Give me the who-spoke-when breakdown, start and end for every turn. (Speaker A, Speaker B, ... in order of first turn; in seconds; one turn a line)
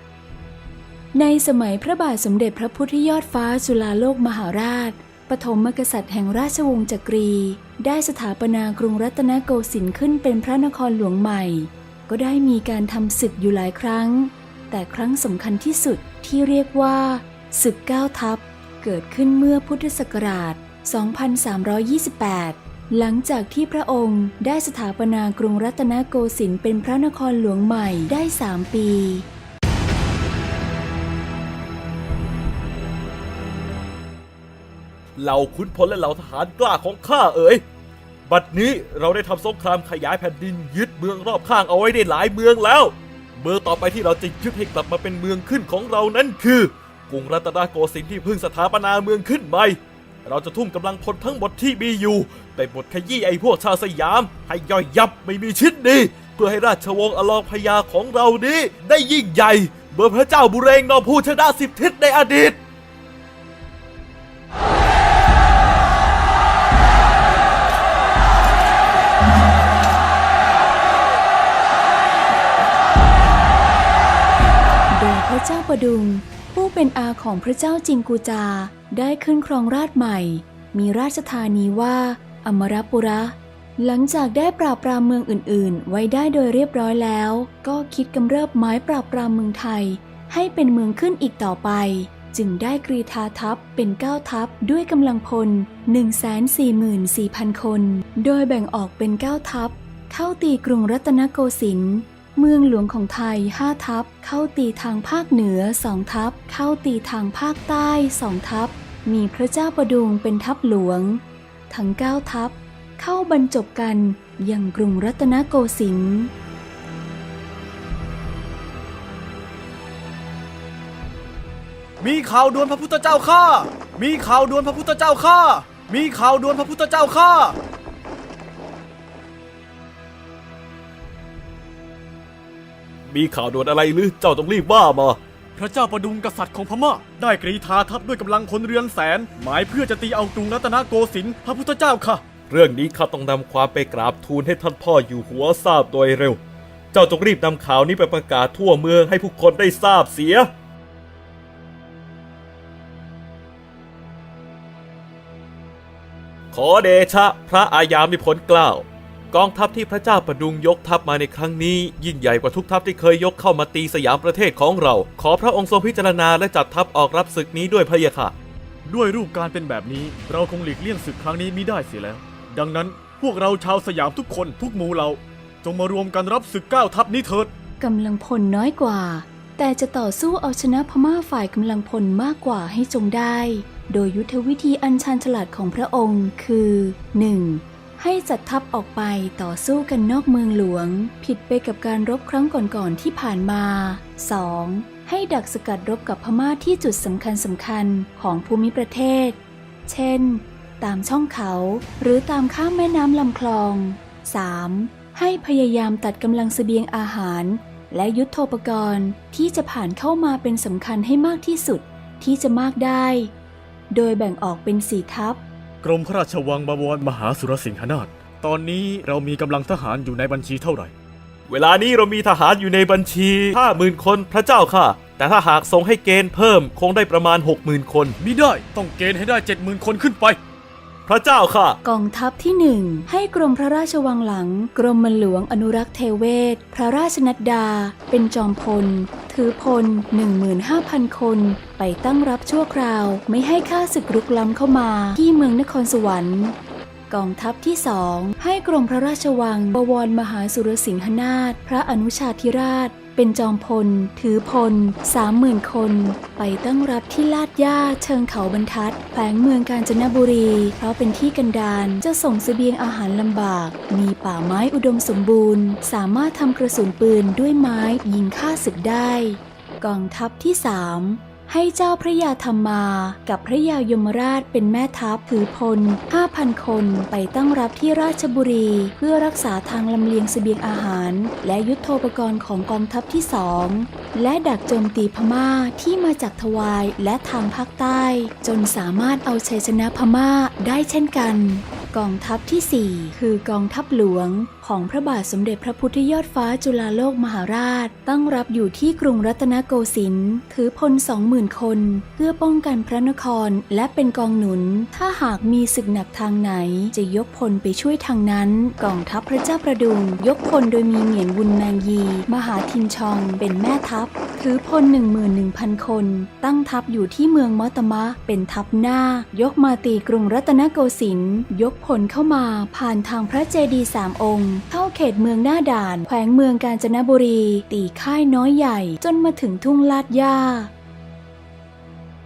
Speaker A: 1.1-29.2
Speaker B: 35.2-37.6
Speaker B: 38.3-62.6
Speaker A: 74.9-116.3
Speaker C: 122.0-127.6
Speaker B: 133.1-135.2
Speaker C: 135.6-142.2
Speaker B: 142.5-146.4
Speaker B: 146.9-150.5
Speaker B: 156.5-168.3
Speaker C: 168.8-177.5
Speaker A: 177.8-213.3
Speaker A: 213.9-215.4
Speaker C: 215.8-220.9
Speaker B: 221.5-228.2
Speaker C: 228.2-230.4
Speaker B: 231.1-231.8
Speaker A: 231.8-246.6
Speaker A: 247.1-330.7